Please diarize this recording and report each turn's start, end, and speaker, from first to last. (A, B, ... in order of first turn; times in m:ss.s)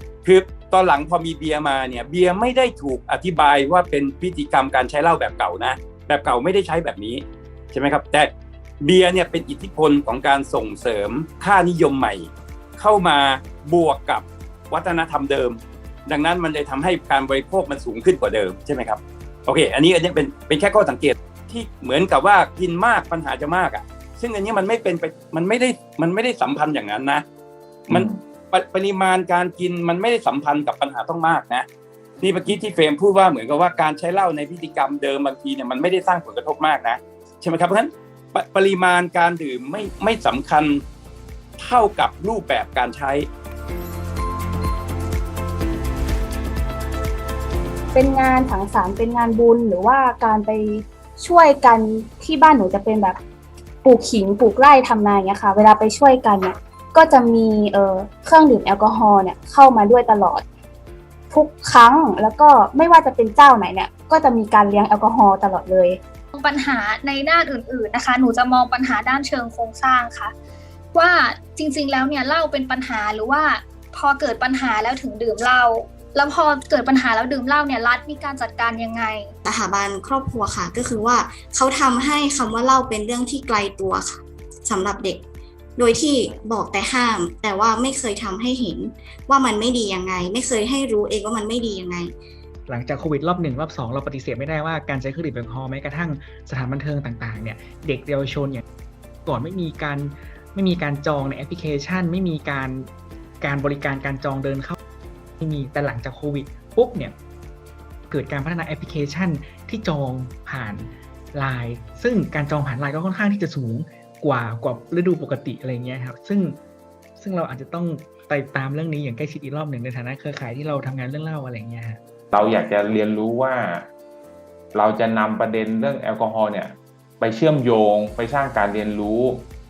0:00.2-0:27.2 A
0:27.9-0:31.6 A
0:32.2-0:40.8 A
0:41.6-0:43.3 A
0:47.9-0:53.2 B
0:53.8-1:00.4 B
1:01.3-1:06.0 B
1:06.3-1:10.3 C
1:10.9-1:19.4 C
1:19.4-1:25.2 D
1:25.8-1:32.1 D
1:32.7-1:38.6 E
1:39.2-1:42.9 E
1:43.4-1:44.8 E
1:45.4-1:47.2 E
1:48.1-1:56.6 E
1:57.2-2:02.0 E
2:02.3-2:03.9 F
2:04.7-2:09.5 F